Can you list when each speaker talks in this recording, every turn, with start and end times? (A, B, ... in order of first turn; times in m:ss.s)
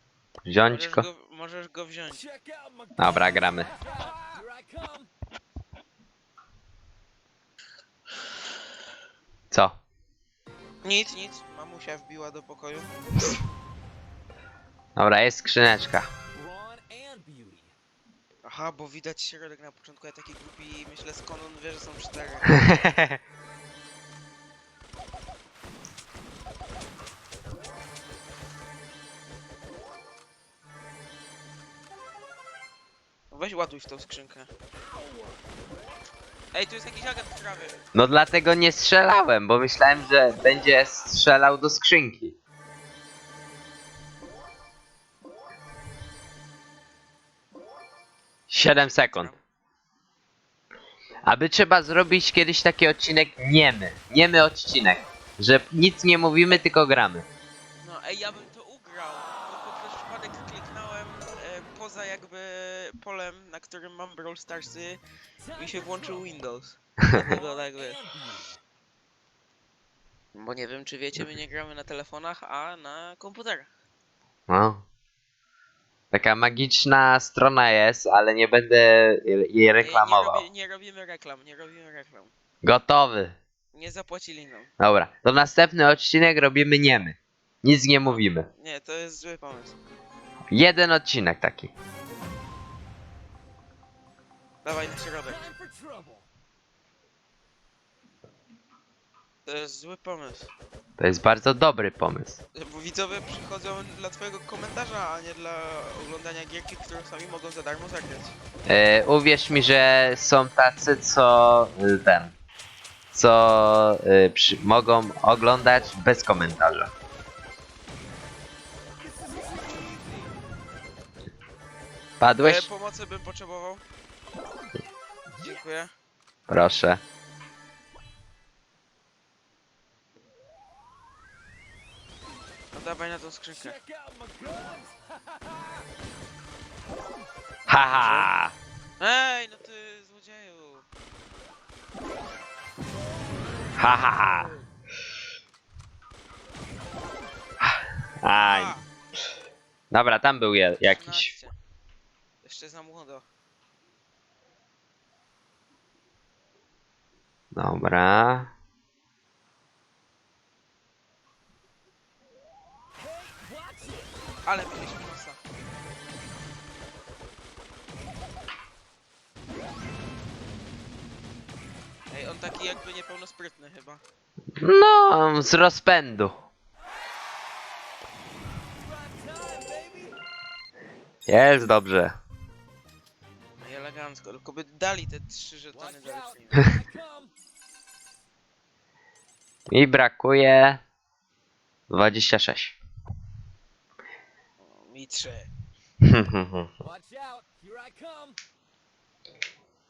0:00.4-0:01.0 A
0:00.6-0:02.3 B
0:02.4-0:03.0 C
0:03.0-0:03.7 A
0:04.2-0:05.1 C
0:10.8-0:12.9 B
0:15.0-0:16.1 A
0:16.3-0:17.7 C
0:18.4-0:22.8 B
0:22.5-0:23.2 A
0:33.3-0:34.5 B
0:36.5-0:37.8 B
0:37.9-0:42.3 A
0:48.5-0:49.3 A
0:48.6-0:49.4 B
0:51.2-0:57.3 A
0:57.8-1:05.0 B
1:05.5-1:08.0 B
1:08.0-1:08.5 C
1:10.3-1:13.7 B
1:14.5-1:14.8 A
1:16.1-1:20.4 A
1:19.8-1:22.3 B
1:22.6-1:23.4 A
1:23.7-1:24.7 B
1:24.8-1:28.5 A
1:28.1-1:29.7 B
1:30.5-1:31.7 A
1:34.6-1:35.5 B
1:35.5-1:36.2 C
1:39.4-1:40.5 B
1:41.0-1:42.4 A
1:42.5-1:48.4 B
1:48.7-1:52.3 A
1:53.1-1:56.9 A
1:59.0-2:00.3 C
2:02.2-2:02.7 A
2:02.4-2:03.8 B
2:05.4-2:05.9 B
2:06.5-2:07.0 A
2:12.7-2:13.8 B
2:13.9-2:15.8 C
2:17.7-2:18.6 A
2:17.9-2:18.3 B
2:19.0-2:20.8 B
2:23.8-2:24.5 A
2:27.6-2:28.8 A
2:28.3-2:28.8 B
2:29.9-2:31.3 A
2:30.8-2:31.5 B
2:32.4-2:33.2 B
2:37.5-2:38.5 A
2:43.3-2:44.1 C
2:44.4-2:45.4 B
2:52.1-2:54.0 B
2:54.6-2:56.5 A
2:58.8-3:00.2 C
3:01.3-3:02.2 A
3:03.6-3:06.8 B
3:06.8-3:07.3 C
3:09.7-3:10.8 A
3:11.9-3:12.8 A
3:14.6-3:15.5 B
3:16.0-3:16.7 A
3:16.9-3:18.4 C